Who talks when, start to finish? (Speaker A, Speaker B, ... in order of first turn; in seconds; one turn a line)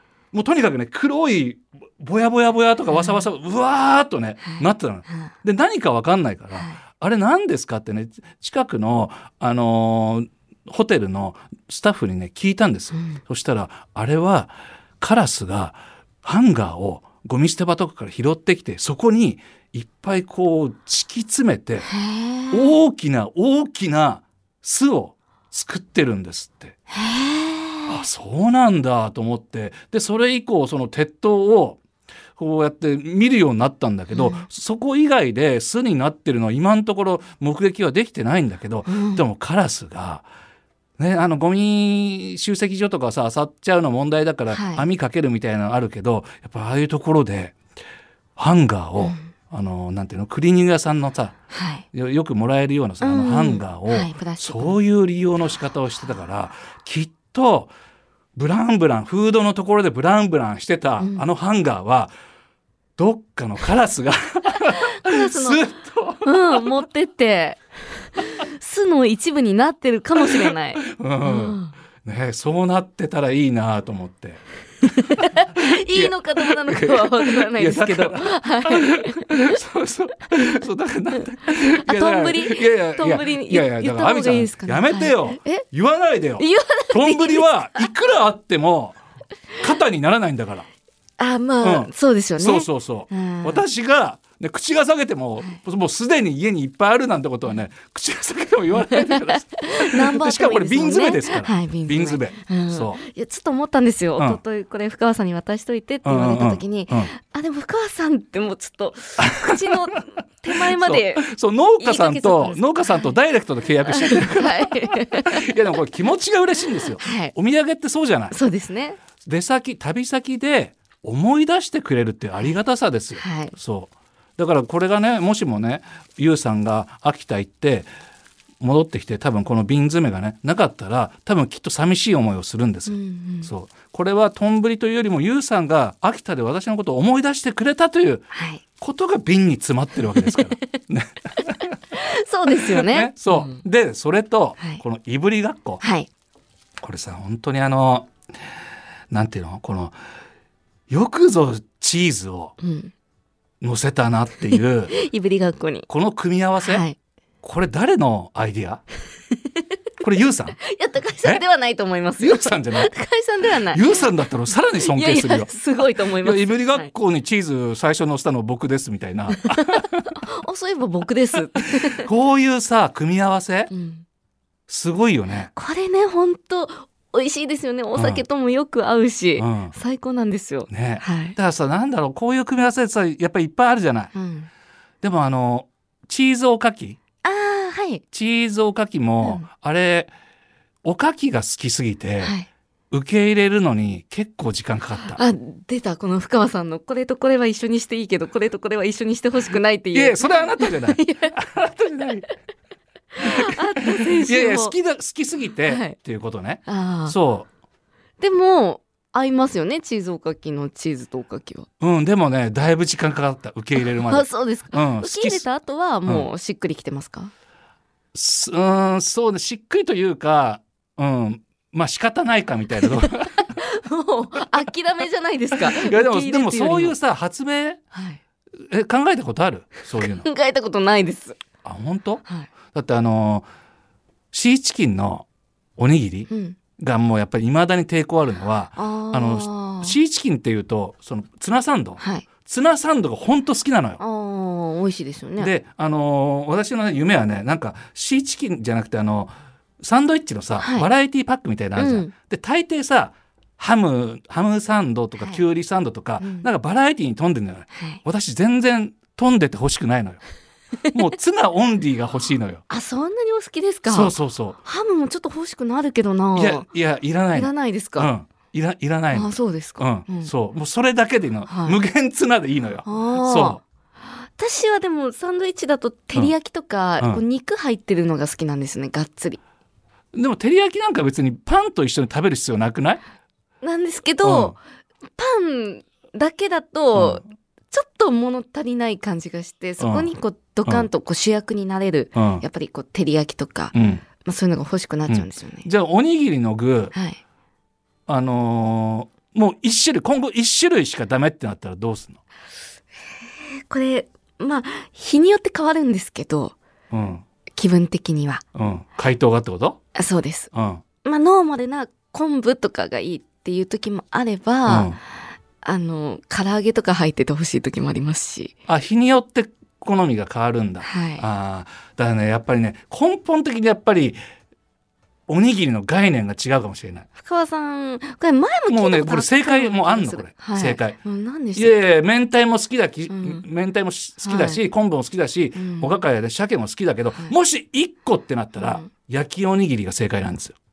Speaker A: 0.3-21.9
Speaker B: 2.9-3.2
Speaker B: 4.4-5.3
Speaker B: 6.5-6.8
Speaker B: 21.9-22.7
Speaker A: 22.5-26.8
Speaker B: 26.9-28.0
Speaker A: 27.9-31.8
Speaker A: 32.4-40.2
Speaker B: 34.1-34.4
Speaker B: 38.9-39.2
Speaker A: 41.0-47.6
Speaker B: 44.5-44.9
Speaker A: 48.4-51.4
Speaker B: 49.0-49.2
Speaker B: 51.5-51.8
Speaker A: 51.9-57.7
Speaker B: 53.0-54.8
Speaker A: 58.4-62.1
Speaker B: 61.0-61.2
Speaker A: 63.0-66.6
Speaker B: 64.9-65.6
Speaker B: 66.2-67.6
Speaker B: 68.2-71.7
Speaker A: 70.9-74.4
Speaker B: 75.0-79.6
Speaker A: 75.5-89.0
Speaker B: 81.5-85.6
Speaker B: 86.4-87.9
Speaker A: 89.6-90.7
Speaker B: 91.2-93.6
Speaker A: 91.6-103.0
Speaker B: 98.8-111.3
Speaker A: 106.0-107.1
Speaker A: 109.2-118.3
Speaker B: 111.8-113.1
Speaker B: 113.9-115.5
Speaker B: 117.0-117.3
Speaker B: 118.3-119.0
Speaker A: 119.2-127.9
Speaker B: 123.2-123.5
Speaker A: 128.6-141.8
Speaker B: 132.9-133.5
Speaker B: 138.3-138.6
Speaker B: 141.9-143.6
Speaker A: 142.6-145.8
Speaker B: 145.8-146.1
Speaker A: 146.8-148.1
Speaker A: 149.1-149.9
Speaker A: 150.9-152.6
Speaker B: 152.6-152.9
Speaker A: 153.6-154.9
Speaker B: 154.5-155.9
Speaker A: 155.9-156.9
Speaker B: 156.6-157.0
Speaker A: 157.4-158.8
Speaker A: 160.0-160.6
Speaker B: 160.6-164.1
Speaker A: 162.2-162.9
Speaker A: 163.7-165.5
Speaker B: 164.8-166.9
Speaker A: 166.2-170.1
Speaker B: 169.4-172.1
Speaker A: 172.0-173.7
Speaker B: 173.7-174.1
Speaker A: 174.7-175.5
Speaker B: 175.5-181.4
Speaker A: 177.9-178.2
Speaker A: 179.4-179.8
Speaker A: 180.7-184.1
Speaker B: 184.1-184.5
Speaker A: 185.0-187.0
Speaker B: 187.2-188.0
Speaker A: 188.1-190.1
Speaker A: 190.8-192.3
Speaker B: 192.2-192.5
Speaker A: 192.9-195.2
Speaker B: 195.2-201.4
Speaker A: 199.9-202.3
Speaker B: 203.2-204.8
Speaker A: 204.2-207.5
Speaker B: 205.7-205.9
Speaker B: 206.7-207.1
Speaker B: 208.2-211.7
Speaker A: 211.8-215.4
Speaker B: 213.8-217.3
Speaker A: 218.1-223.5
Speaker B: 223.0-226.9
Speaker A: 225.6-227.8
Speaker B: 227.9-228.2
Speaker A: 228.7-230.2
Speaker B: 229.9-231.4
Speaker A: 231.6-233.5
Speaker A: 234.3-235.2
Speaker A: 235.8-244.0
Speaker B: 236.3-236.6
Speaker B: 238.8-240.0
Speaker B: 242.0-242.2
Speaker B: 244.0-245.5
Speaker A: 245.4-260.2
Speaker B: 250.6-250.9
Speaker B: 251.8-252.1
Speaker B: 255.2-255.4
Speaker B: 256.2-256.5
Speaker B: 257.7-258.0
Speaker A: 260.9-262.6
Speaker B: 262.7-264.1
Speaker A: 263.9-264.6
Speaker B: 264.6-266.7
Speaker A: 266.4-273.6
Speaker B: 267.3-268.1
Speaker B: 269.1-270.3
Speaker B: 271.5-271.8
Speaker B: 272.9-279.4
Speaker A: 280.1-283.0
Speaker B: 283.6-284.6
Speaker A: 284.2-284.6
Speaker B: 285.1-293.7
Speaker A: 286.9-287.2
Speaker A: 289.8-290.1
Speaker A: 292.1-292.4
Speaker A: 293.7-294.0
Speaker B: 294.2-295.7
Speaker A: 295.1-296.9
Speaker B: 296.9-297.2
Speaker A: 298.1-302.2
Speaker B: 303.4-306.5
Speaker A: 306.9-307.2
Speaker B: 307.5-308.4
Speaker A: 308.5-309.8
Speaker B: 309.9-310.5
Speaker A: 310.5-310.8
Speaker B: 311.0-315.0
Speaker A: 314.7-315.0
Speaker B: 315.6-318.5
Speaker A: 318.7-324.2
Speaker B: 320.8-321.2
Speaker A: 325.3-327.1
Speaker B: 327.2-331.8
Speaker A: 328.7-331.0
Speaker A: 331.5-340.6
Speaker B: 333.1-333.4
Speaker B: 334.2-334.6
Speaker B: 335.5-336.0
Speaker B: 338.6-338.9